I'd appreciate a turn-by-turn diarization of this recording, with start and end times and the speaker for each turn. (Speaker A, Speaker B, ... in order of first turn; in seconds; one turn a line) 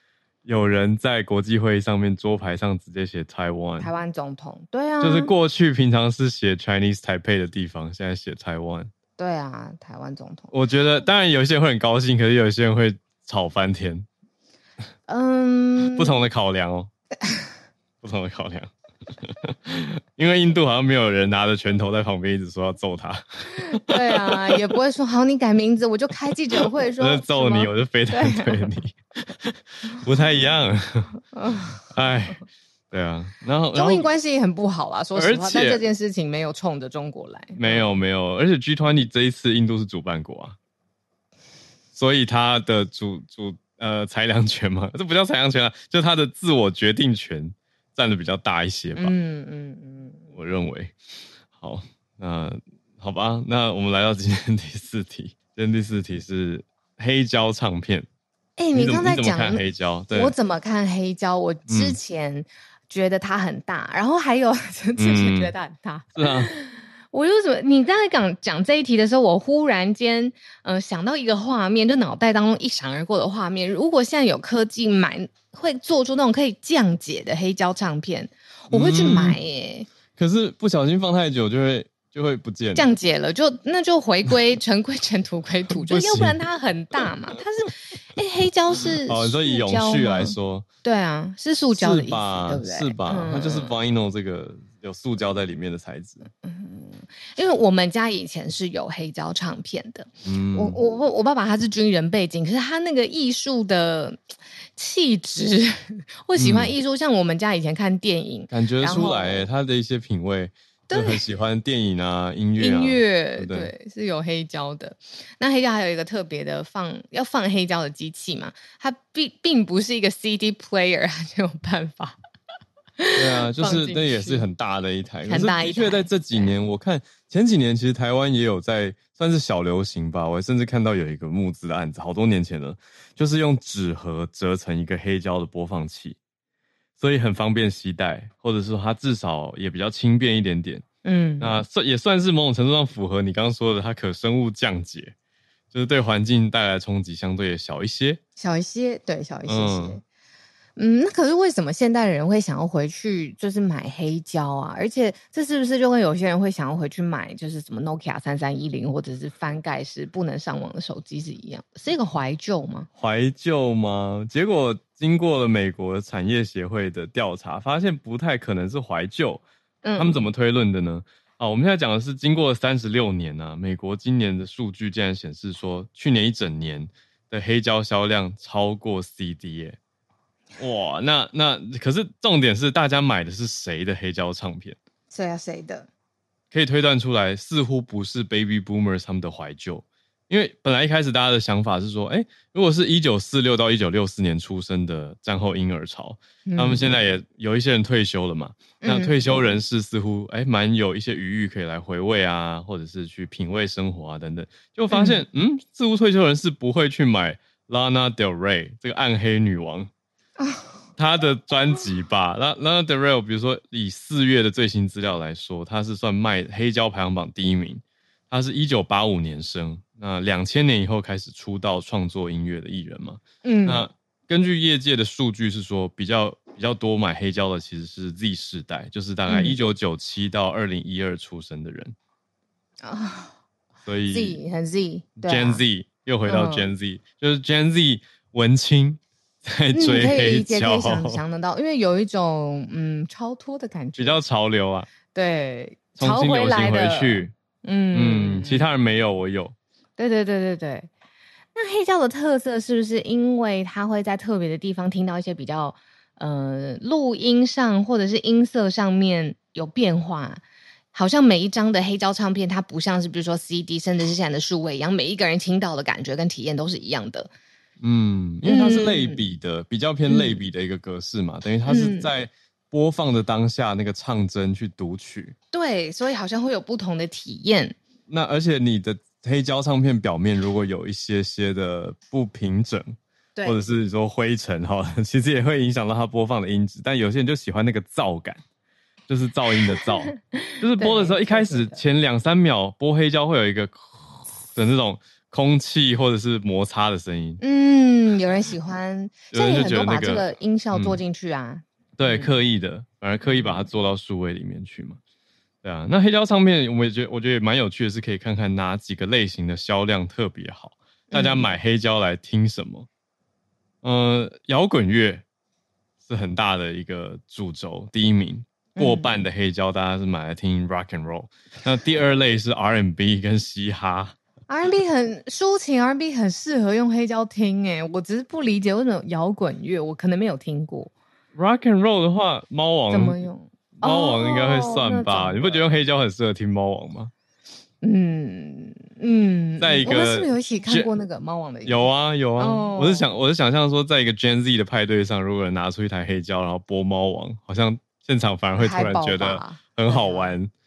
Speaker A: 0.4-3.9
Speaker B: 3.8-5.3
Speaker A: 5.0-8.9
Speaker B: 9.2-10.5
Speaker A: 10.5-14.1
Speaker B: 15.1-16.1
Speaker A: 15.9-16.9
Speaker A: 18.0-18.7
Speaker A: 19.2-24.5
Speaker B: 23.7-28.7
Speaker A: 26.5-31.1
Speaker B: 31.3-31.8
Speaker A: 31.9-32.4
Speaker A: 32.9-34.1
Speaker B: 33.7-37.8
Speaker A: 35.1-35.8
Speaker A: 37.5-40.5
Speaker A: 41.9-49.1
Speaker B: 48.9-50.2
Speaker A: 50.3-50.9
Speaker A: 51.5-58.1
Speaker B: 58.6-79.9
Speaker A: 58.7-60.3
Speaker A: 61.7-62.0
Speaker A: 65.0-65.5
Speaker A: 66.2-66.5
Speaker A: 78.7-79.4
Speaker A: 80.2-82.9
Speaker B: 82.7-93.7
Speaker A: 85.8-86.4
Speaker A: 89.0-90.7
Speaker A: 91.7-96.2
Speaker B: 96.4-104.2
Speaker A: 100.2-100.8
Speaker B: 104.8-109.5
Speaker A: 106.3-106.7
Speaker A: 108.5-113.7
Speaker B: 110.9-111.2
Speaker B: 112.6-122.2
Speaker B: 123.0-124.4
Speaker A: 123.1-136.2
Speaker B: 125.3-126.5
Speaker A: 137.0-140.8
Speaker B: 141.0-141.6
Speaker A: 141.4-145.1
Speaker A: 145.7-148.2
Speaker B: 148.4-150.0
Speaker A: 149.4-150.0
Speaker B: 150.8-162.9
Speaker A: 163.0-169.4
Speaker B: 169.8-170.2
Speaker A: 169.9-179.8
Speaker A: 180.6-184.8
Speaker B: 185.1-185.9
Speaker A: 186.5-209.9
Speaker B: 196.4-196.9
Speaker B: 198.8-199.2
Speaker B: 204.9-205.2
Speaker B: 210.4-210.7
Speaker A: 211.0-231.9
Speaker B: 223.4-223.9
Speaker B: 229.3-229.6
Speaker B: 232.8-233.3
Speaker A: 233.8-234.4
Speaker B: 234.1-235.6
Speaker A: 235.2-241.2
Speaker B: 236.2-236.7
Speaker B: 239.7-244.2
Speaker A: 244.0-244.9
Speaker B: 245.1-248.7
Speaker A: 245.9-247.3
Speaker A: 247.9-249.5
Speaker B: 250.0-250.9
Speaker B: 251.5-260.4
Speaker B: 260.9-267.3
Speaker A: 267.8-275.3
Speaker B: 268.4-269.2
Speaker B: 270.1-270.4
Speaker B: 271.6-272.1
Speaker B: 275.5-277.8
Speaker A: 278.1-288.4
Speaker A: 289.1-297.4
Speaker B: 289.8-291.8
Speaker B: 297.4-302.3
Speaker A: 299.3-301.0
Speaker A: 302.0-305.0
Speaker A: 305.6-312.9
Speaker B: 311.1-311.5
Speaker A: 313.8-315.2
Speaker A: 316.1-324.1
Speaker B: 318.7-319.2
Speaker B: 324.5-330.9
Speaker A: 331.3-333.2
Speaker B: 332.9-335.6
Speaker A: 333.8-337.1
Speaker B: 337.8-343.1
Speaker A: 339.6-340.9
Speaker A: 341.6-350.5
Speaker B: 348.6-350.4